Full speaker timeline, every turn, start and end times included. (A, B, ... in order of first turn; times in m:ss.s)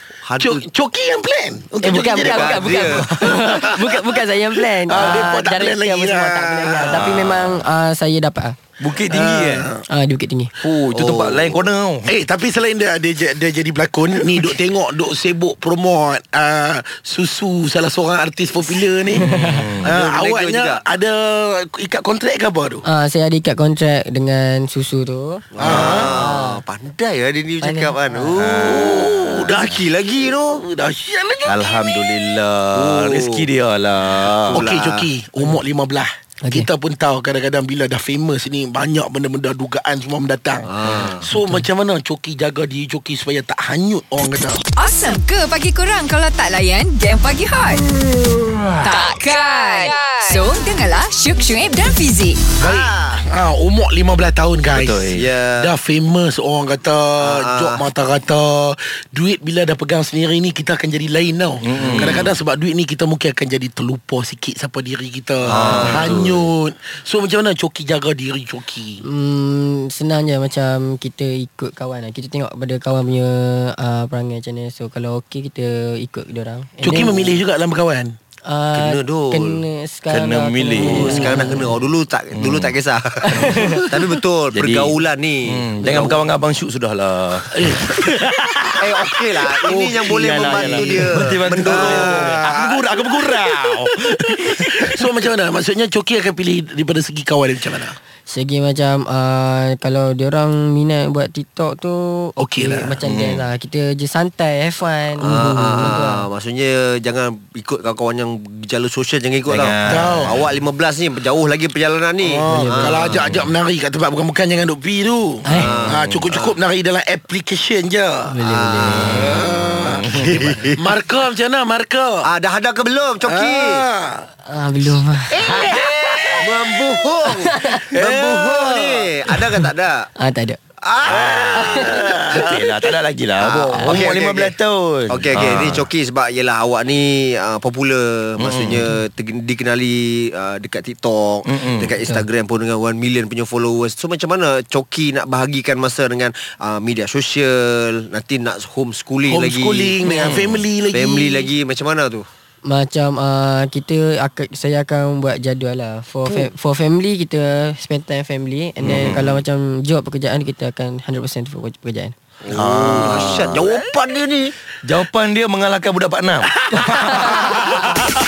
0:00.2-0:00.7 A
0:00.4-0:07.2 B
0:01.8-0:08.6 C
0:02.2-0:03.5 A
0:07.0-0:07.4 D
0:08.8-0:09.7 D
0:09.1-0:09.8 B
0:09.9-0:10.5 C
0:10.6-0:12.1 D
0:10.8-0:11.7 A
0:12.1-0:22.8 B
0:19.2-0:19.9 D
0:19.3-0:19.7 C
0:19.8-0:20.8 A
0:22.8-0:26.6 C
0:25.5-0:30.6 A
0:25.6-0:26.2 B
0:25.6-0:26.0 D
0:27.6-0:28.3 C
0:28.4-0:29.8 D
0:28.6-0:32.1 B
0:31.5-0:34.7 D
0:32.7-0:33.5 A
0:34.0-0:35.1 A
0:34.5-0:44.6 B
0:36.4-0:36.7 C
0:40.7-0:41.3 A
0:44.8-0:47.9 E
0:48.1-0:48.7 B
0:48.8-0:52.4 E
0:52.6-0:53.2 A
0:52.6-1:09.0 B
0:54.7-0:55.2 D
0:55.1-0:55.7 A
0:57.2-0:57.9 A
1:01.6-1:02.4 D
1:05.4-1:06.5 D
1:05.5-1:06.2 A
1:09.0-1:17.4 C
1:16.8-1:18.2 B
1:18.5-1:21.7 C
1:18.7-1:19.6 A
1:20.1-1:21.3 D
1:20.8-1:26.3 A
1:20.9-1:21.4 B
1:22.3-1:22.8 D
1:23.3-1:23.8 D
1:23.4-1:23.8 C
1:24.5-1:28.8 D
1:27.5-1:27.9 B
1:28.8-1:32.6 A
1:29.6-1:35.1 D
1:30.7-1:31.1 B
1:31.6-1:38.0 B
1:38.3-1:46.2 C
1:42.4-1:43.0 B
1:43.0-1:43.4 D
1:45.2-1:53.2 A
1:49.5-1:50.3 D
1:49.9-1:50.3 B
1:52.2-1:58.4 B
1:52.5-1:53.0 C
1:53.1-1:53.5 D
1:55.4-1:55.9 C
1:55.5-1:56.5 A
1:55.9-1:56.3 D
1:58.3-1:59.4 C
1:58.5-2:00.8 A
1:59.1-2:00.5 D
1:59.3-2:00.0 B
2:00.8-2:02.3 B
2:02.3-2:03.8 A
2:03.2-2:04.3 B
2:04.5-2:05.4 C
2:05.4-2:06.5 B
2:06.4-2:10.1 A
2:07.3-2:07.8 C
2:07.9-2:09.1 D
2:10.2-2:10.6 C
2:10.8-2:11.9 A
2:11.1-2:15.9 D
2:11.3-2:12.9 B
2:13.4-2:14.6 A
2:13.8-2:14.1 C
2:15.1-2:30.4 A
2:18.4-2:18.9 D
2:21.5-2:21.9 D
2:29.3-2:31.5 B
2:30.0-2:30.7 D
2:30.9-2:32.3 A
2:32.6-2:42.1 C
2:38.8-2:39.4 D
2:42.4-2:44.5 A
2:42.5-2:43.8 D
2:44.8-2:48.0 D